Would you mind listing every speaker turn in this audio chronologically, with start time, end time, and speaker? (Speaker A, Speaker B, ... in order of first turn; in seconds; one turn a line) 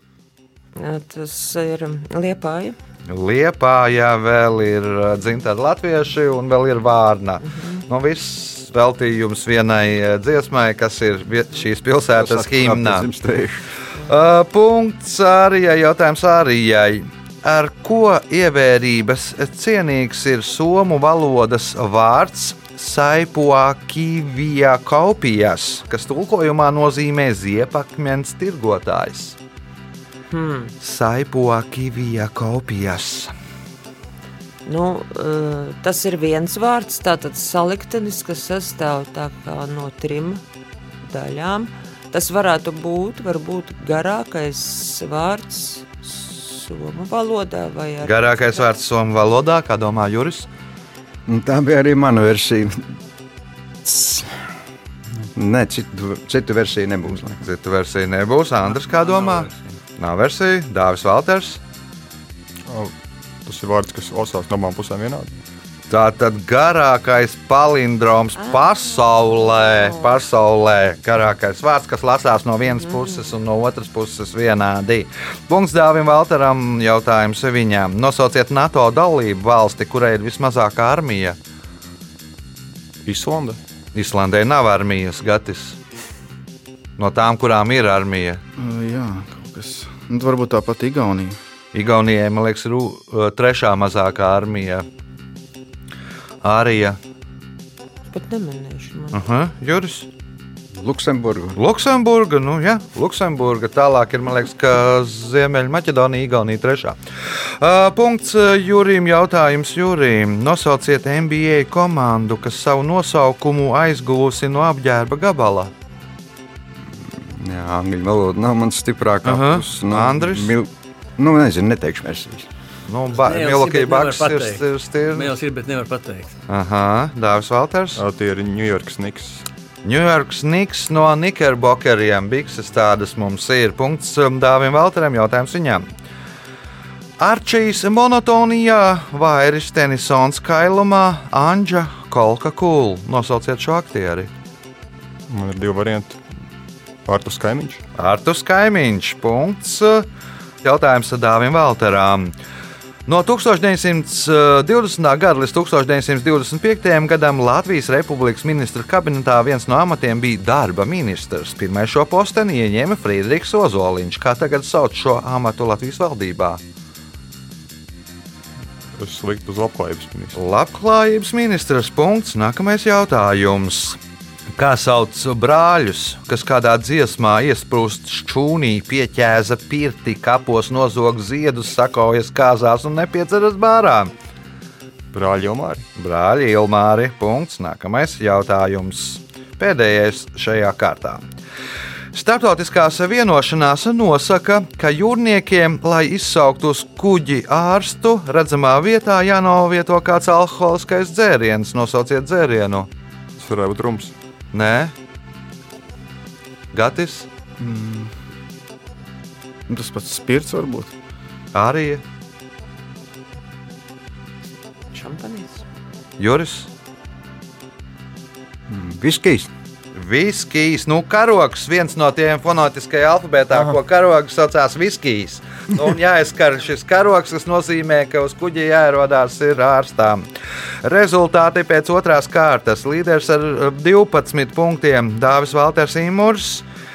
Speaker A: 0.8-2.8
Speaker B: 3.1-13.1
Speaker A: 7.5-7.8
Speaker C: 12.1-13.6
Speaker B: 14.1-29.4
Speaker A: 30.3-30.7
Speaker B: 30.8-33.3
Speaker A: 34.7-40.4
Speaker A: 41.0-48.6
Speaker B: 48.0-50.5
Speaker C: 51.3-52.8
Speaker C: 53.8-54.4
Speaker C: 55.4-57.4
Speaker B: 57.2-61.6
Speaker D: 58.7-59.7
Speaker E: 62.7-62.9
Speaker E: 63.5-65.4
Speaker B: 65.9-81.4
Speaker A: 68.4-70.2
Speaker A: 72.8-73.2
Speaker E: 83.0-83.6
Speaker B: 83.9-85.8
Speaker B: 87.0-88.4
Speaker F: 88.6-91.4
Speaker B: 91.7-94.9
Speaker B: 96.4-97.0
Speaker A: 98.1-99.2
Speaker B: 99.1-100.1
Speaker C: 100.8-101.6
Speaker B: 101.5-115.7
Speaker C: 116.9-122.5
Speaker B: 119.2-120.5
Speaker B: 122.9-125.3
Speaker D: 123.2-126.3
Speaker B: 126.5-128.0
Speaker E: 128.0-129.4
Speaker B: 129.8-135.9
Speaker B: 137.2-144.3
Speaker E: 145.3-146.2
Speaker E: 147.1-147.8
Speaker B: 148.0-150.1
Speaker B: 150.6-152.3
Speaker B: 153.1-166.6
Speaker E: 169.0-170.4
Speaker B: 170.3-174.0
Speaker B: 174.6-184.1
Speaker E: 185.1-185.8
Speaker B: 186.0-191.2
Speaker B: 192.1-202.9
Speaker E: 203.4-204.1
Speaker B: 204.5-204.9
Speaker B: 206.7-207.3
Speaker F: 207.6-208.1
Speaker F: 209.7-210.9
Speaker B: 211.5-212.0
Speaker A: 214.9-215.6
Speaker B: 216.2-216.7
Speaker C: 218.7-219.5
Speaker B: 219.9-230.2
Speaker B: 230.8-236.7